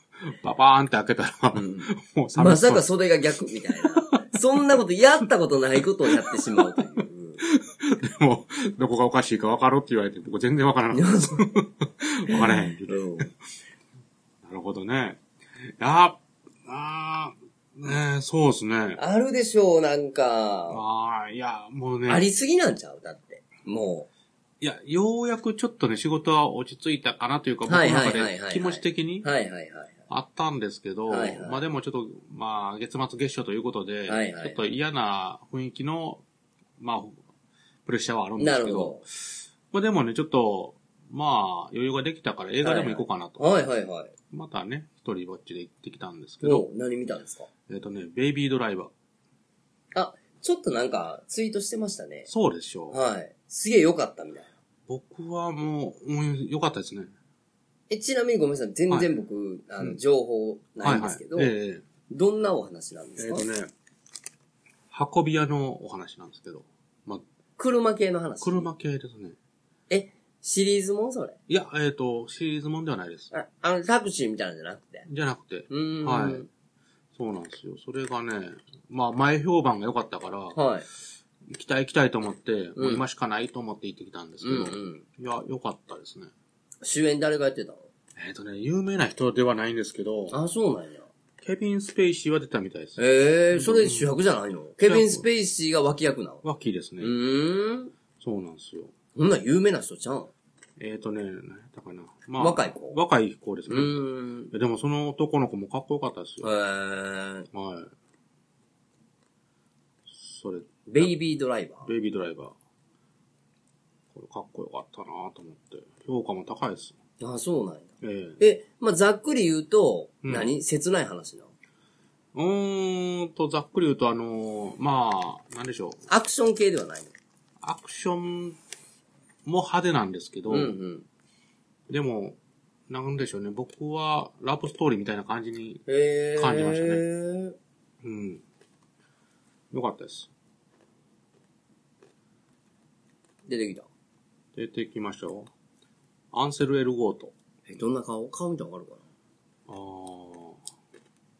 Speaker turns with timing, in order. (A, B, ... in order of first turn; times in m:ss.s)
0:00.2-0:02.8 A
0:01.5-0:07.4 B
0:06.3-0:06.9 A
0:07.4-0:13.3 A
0:10.9-0:11.6 B
0:12.3-0:13.3 B
0:14.4-0:19.0 A
0:19.0-0:20.8 B
0:20.7-0:22.3 A
0:22.1-0:24.1 B
0:24.6-0:29.3 A
0:27.7-0:30.0 B
0:30.1-0:36.2 A
0:31.1-0:31.6 B
0:34.1-0:34.6 B
0:36.8-0:37.2 A
0:37.8-0:43.5 A
0:38.4-0:39.0 B
0:42.6-0:44.1 B
0:44.3-0:46.6 A
0:46.4-0:47.5 B
0:47.7-0:48.9 A
0:49.9-0:52.3 B
0:52.3-0:53.0 A
0:52.9-0:54.5 B
0:54.9-0:57.1 A
0:57.9-1:01.5 B
1:00.8-1:01.8 A
1:02.1-1:03.5 B
1:03.2-1:03.7 A
1:04.9-1:07.2 A
1:07.6-1:08.7 B
1:08.4-1:09.4 A
1:09.9-1:11.4 B
1:11.5-1:13.3 A
1:13.3-1:15.0 B
1:15.0-1:16.4 A
1:15.7-1:16.5 B
1:17.1-1:20.6 A
1:20.5-1:20.9 B
1:21.5-1:26.3 A
1:22.8-1:23.0 B
1:24.4-1:25.0 B
1:26.8-1:27.9 B
1:28.2-1:30.4 A
1:30.3-1:31.1 B
1:31.4-1:33.0 A
1:33.0-1:36.4 B
1:33.5-1:34.1 A
1:34.8-1:35.2 A
1:36.4-1:37.1 A
1:37.0-1:37.9 B
1:38.2-1:38.9 A
1:39.1-1:40.3 B
1:40.8-1:44.0 A
1:42.4-1:43.0 B
1:43.7-1:44.5 B
1:44.5-1:46.5 A
1:46.4-1:47.5 B
1:47.5-1:47.9 A
1:50.1-1:51.1 A
1:50.9-1:51.9 B
1:51.8-1:52.5 A
1:54.1-1:56.9 A
1:57.2-2:01.5 B
1:58.0-1:58.4 A
2:00.2-2:00.5 A
2:02.3-2:06.0 A
2:06.1-2:07.1 B
2:07.6-2:08.6 A
2:09.4-2:10.8 A
2:10.5-2:11.0 B
2:11.9-2:12.4 A
2:12.9-2:15.8 A
2:15.9-2:17.6 B
2:16.4-2:17.0 A
2:18.0-2:18.4 A
2:19.7-2:20.3 A
2:23.5-2:23.9 B
2:24.5-2:25.5 A
2:26.3-2:27.3 A
2:27.7-2:29.0 B
2:29.7-2:30.6 A